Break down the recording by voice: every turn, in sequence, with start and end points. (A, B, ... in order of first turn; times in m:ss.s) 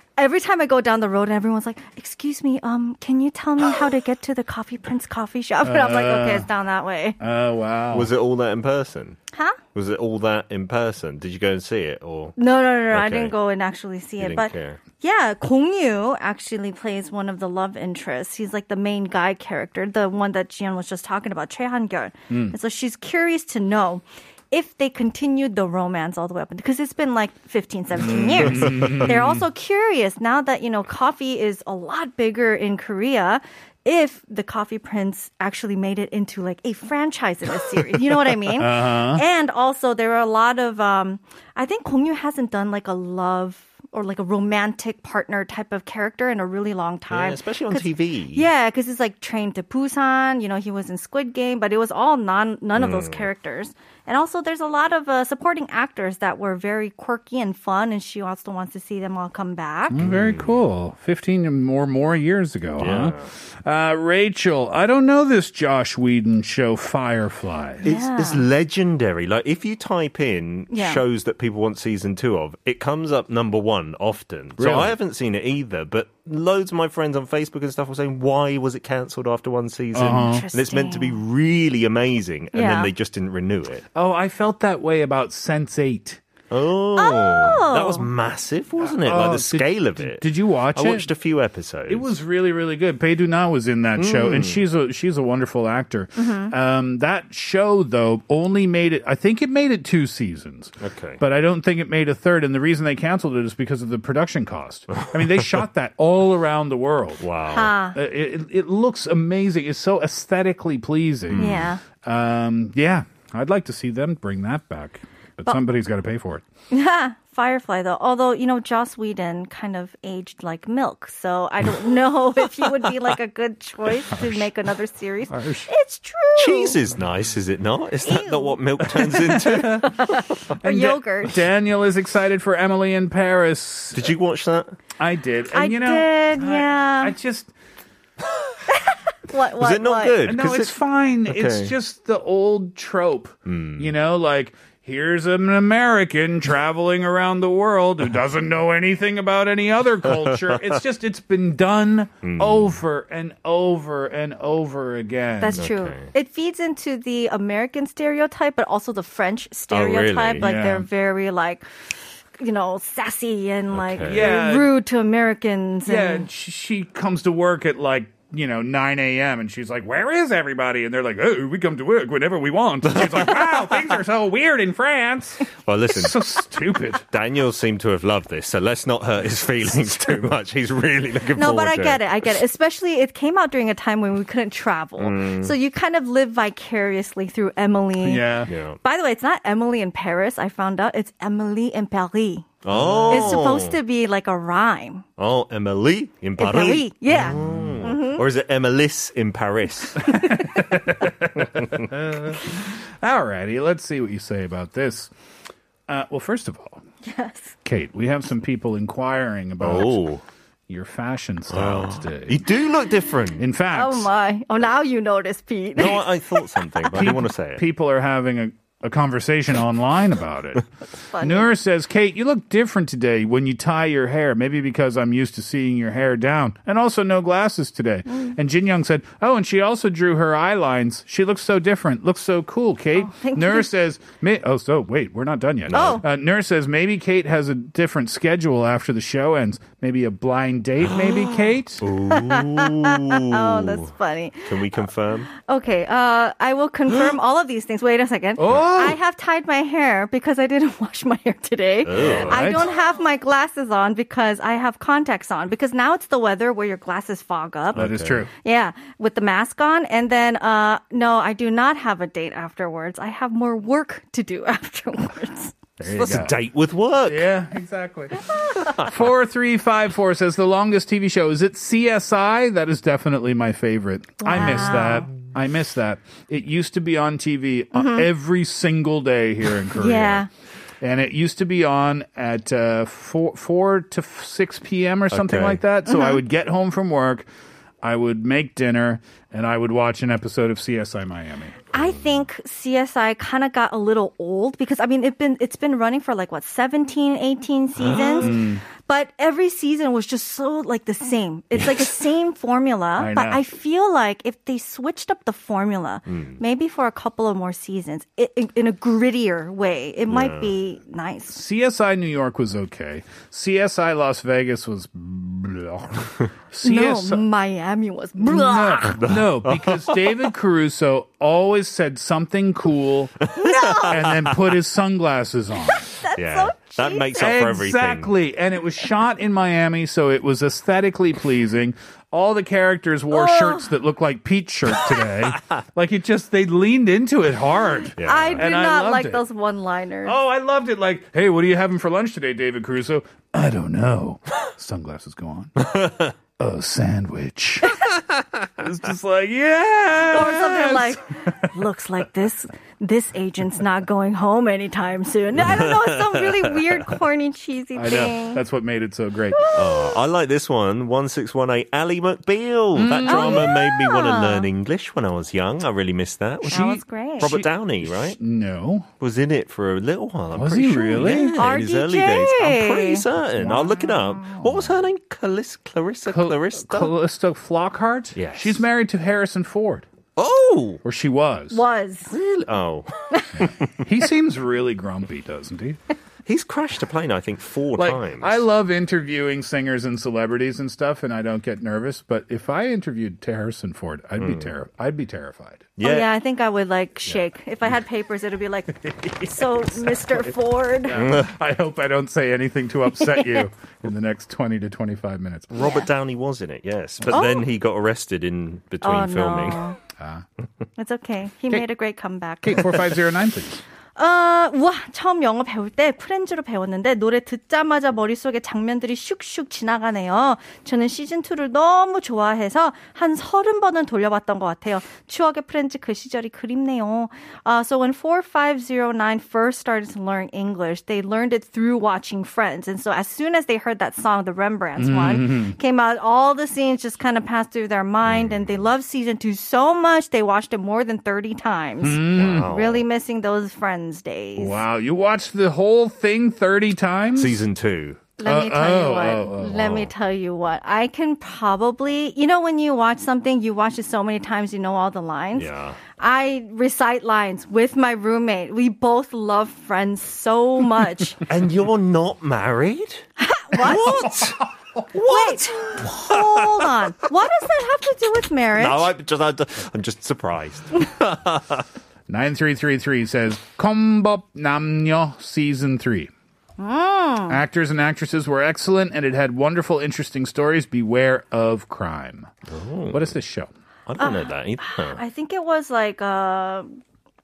0:00.2-0:07.2 A
0:05.6-0:06.5 B
0:07.2-0:08.1 B
0:07.9-0:09.2 C
0:09.7-0:12.4 C
0:12.4-1:00.0 A
0:12.9-0:13.3 C
0:14.2-0:14.8 C
0:22.3-0:22.5 B
0:28.0-0:29.4 B
0:28.1-0:29.1 C
0:38.6-0:39.2 B
0:47.1-0:48.5 C
0:52.7-0:53.3 C
0:59.9-1:07.8 B
1:00.0-1:00.6 C
1:02.8-1:03.3 C
1:07.8-1:08.4 A
1:07.8-1:23.8 C
1:10.7-1:11.0 A
1:14.6-1:15.0 B
1:19.9-1:20.5 B
1:20.2-1:21.2 A
1:22.5-1:22.9 A
1:23.9-1:26.2 B
1:26.5-1:32.0 C
1:27.0-1:28.1 A
1:28.8-1:31.1 B
1:31.9-1:47.2 B
1:34.0-1:34.6 C
1:36.2-1:36.5 A
1:40.8-1:41.2 C
1:47.2-1:47.7 C
1:47.5-1:48.0 A
1:47.9-1:56.4 B
1:51.3-1:51.7 C
1:51.4-1:51.8 A
1:56.7-2:06.8 A
2:04.1-2:04.5 B
2:05.3-2:05.7 B
2:06.4-2:09.8 C
2:08.0-2:08.6 A
2:09.2-2:09.9 B
2:09.8-2:11.4 A
2:10.6-2:14.1 B
2:13.9-2:14.8 C
2:15.0-2:17.5 B
2:15.5-2:17.1 A
2:18.8-2:20.2 A
2:19.6-2:20.8 C
2:20.2-2:35.6 B
2:21.3-2:21.7 C
2:23.5-2:23.9 C
2:32.2-2:32.8 C
2:35.4-2:41.6 A
2:35.5-2:36.1 C
2:39.7-2:40.5 C
2:40.4-2:40.9 B
2:42.4-2:46.3 A
2:43.7-2:44.3 C
2:44.0-2:44.7 B
2:45.8-2:57.0 B
2:52.9-2:53.4 C
2:55.6-2:56.2 C
2:56.9-3:02.1 C
3:01.3-3:12.5 A
3:05.0-3:05.5 C
3:08.0-3:08.5 B
3:08.5-3:08.8 C
3:12.6-3:13.8 C
3:12.7-3:13.4 B
3:13.1-3:15.0 A
3:15.2-3:20.0 C
3:16.4-3:18.2 A
3:17.1-3:17.9 B
3:20.0-3:22.3 B
3:23.0-3:25.1 B
3:25.9-3:26.8 B
3:27.0-3:27.5 A
3:27.6-3:30.0 B
3:29.6-3:30.2 C
3:30.7-3:32.4 B
3:31.5-3:33.4 C
3:33.4-3:34.1 B
3:33.7-3:36.2 A
3:35.8-3:37.6 C
3:36.9-3:40.6 B
3:41.1-3:41.5 A
3:41.2-4:01.8 B
3:53.0-3:53.7 A
3:55.7-3:56.0 C
3:55.7-3:56.0 A
4:01.8-4:03.9 C
4:02.1-4:04.6 A
4:04.4-4:05.3 C
4:05.4-4:17.8 A
4:08.4-4:09.0 B
4:11.8-4:12.6 C
4:12.0-4:12.7 B
4:17.7-4:18.3 C
4:17.8-4:18.3 B
4:18.4-4:25.5 A
4:25.8-4:27.2 C
4:25.8-4:26.4 B
4:27.0-4:40.2 B
4:34.2-4:35.1 A
4:34.4-4:34.8 C
4:37.7-4:38.1 A
4:39.7-4:40.3 A
4:40.8-4:47.2 B
4:45.1-4:45.6 C
4:45.8-4:46.2 A
4:47.8-4:51.6 B
4:51.7-5:11.4 A
4:57.8-4:58.3 C
4:57.8-4:58.6 B
5:01.5-5:01.8 C
5:03.0-5:03.4 B
5:06.0-5:06.4 C
5:10.1-5:10.6 C
5:11.3-5:17.2 B
5:16.6-5:19.0 A
5:18.2-5:23.2 B
5:19.0-5:20.3 C
5:23.4-5:24.0 A
5:23.4-5:24.2 C
5:23.9-5:25.8 B
5:25.8-5:27.3 A
5:26.2-5:28.1 C
5:27.2-5:39.2 B
5:33.1-5:33.7 A
5:38.0-5:38.4 C
5:38.0-5:40.1 A
5:40.0-5:45.7 B
5:46.4-5:47.7 B
5:48.6-5:51.4 B
5:50.1-5:58.4 A
5:57.7-5:59.4 B
5:59.3-5:59.9 A
5:59.5-6:08.2 C
6:02.8-6:03.5 B
6:03.0-6:04.5 A
6:06.4-6:08.9 B
6:06.4-6:07.3 A
6:09.0-6:16.9 C
6:10.3-6:11.4 B
6:10.9-6:13.0 A
6:13.4-6:14.7 B
6:16.0-6:19.8 B
6:18.1-6:18.6 C
6:20.2-6:20.8 C
6:20.8-6:21.6 B
6:21.5-6:22.1 A
6:22.1-6:23.7 C
6:23.1-6:23.4 A
6:23.8-6:25.8 B
6:26.2-6:28.4 C
6:27.8-6:35.7 B
6:34.2-6:34.5 C
6:35.8-6:36.1 C
6:35.8-6:41.0 A
6:38.8-6:40.3 B
6:40.8-6:45.6 B
6:41.0-6:41.3 C
6:42.9-6:43.5 A
6:45.5-6:49.6 C
6:45.6-6:45.9 A
6:47.1-6:47.4 A
6:48.8-6:49.8 A
6:50.0-6:50.2 B
6:50.8-6:52.7 A
6:52.4-6:53.6 B
6:54.0-7:24.6 A
7:14.8-7:15.6 B
7:18.0-7:18.7 C
7:21.8-7:22.5 B
7:22.1-7:22.8 C
7:24.4-7:27.4 B
7:27.2-7:28.0 C
7:28.2-7:41.2 A
7:28.2-7:29.9 B
7:29.6-7:29.9 C
7:35.3-7:35.8 C
7:41.3-7:43.1 C
7:43.2-7:44.0 A
7:43.6-7:44.4 C
7:43.6-7:44.1 B
7:44.9-7:46.7 C
7:45.0-7:48.9 A
7:48.6-7:51.6 C
7:52.1-7:56.1 B
7:56.6-7:57.4 A
7:57.3-8:02.3 B
8:02.5-8:03.1 C
8:02.9-8:03.5 B
8:03.9-8:05.0 C
8:04.0-8:06.7 A